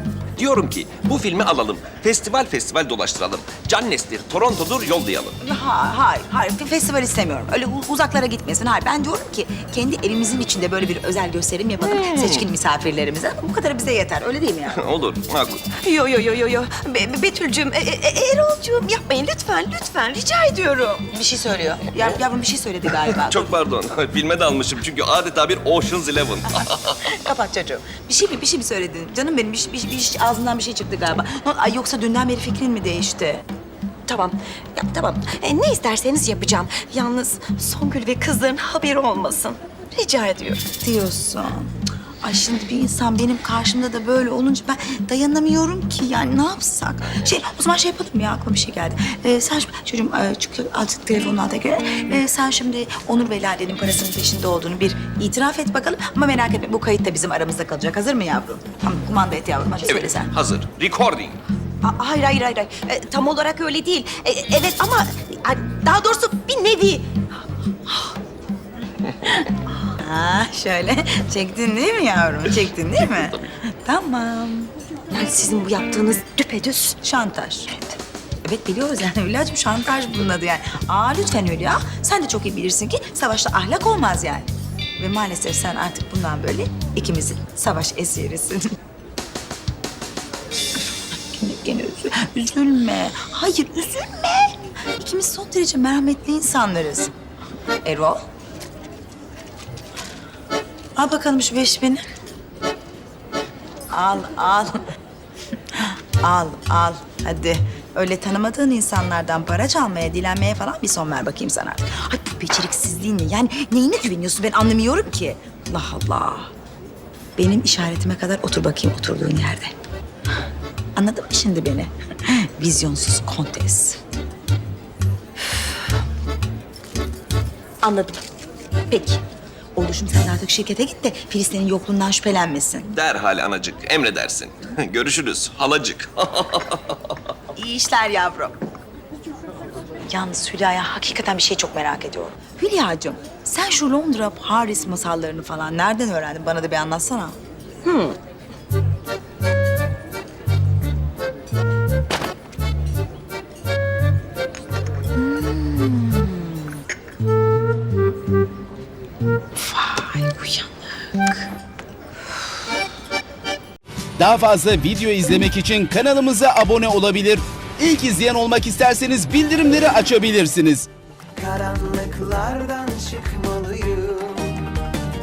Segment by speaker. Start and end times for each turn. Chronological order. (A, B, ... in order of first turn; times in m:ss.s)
0:00.4-0:05.4 A
0:05.4-0:14.8 B
0:11.8-0:12.5 A
0:14.7-0:15.7 A
0:15.8-0:21.0 C
0:21.1-0:23.5 B
0:23.3-0:27.2 A
0:27.0-0:33.4 B
0:34.1-0:40.7 C
0:40.7-1:00.4 B
0:59.8-1:01.4 A
1:01.8-1:07.1 C
1:07.9-1:08.1 C
1:09.9-1:14.7 B
1:15.1-1:17.0 C
1:17.0-1:17.9 B
1:18.4-1:28.7 B
1:31.3-1:37.2 B
1:37.8-1:38.2 B
1:41.0-1:42.1 B
1:43.9-1:44.8 B
1:45.8-1:56.5 B
1:57.4-1:59.8 B
2:01.0-2:04.0 B
2:07.8-2:08.2 B
2:08.9-2:09.2 B
2:09.8-2:12.9 B
2:12.9-2:17.2 A
2:17.6-2:18.6 B
2:20.1-2:27.4 B
2:35.2-2:36.6 B
2:39.6-2:41.3 B
2:44.2-2:50.9 D
2:51.4-2:54.6 E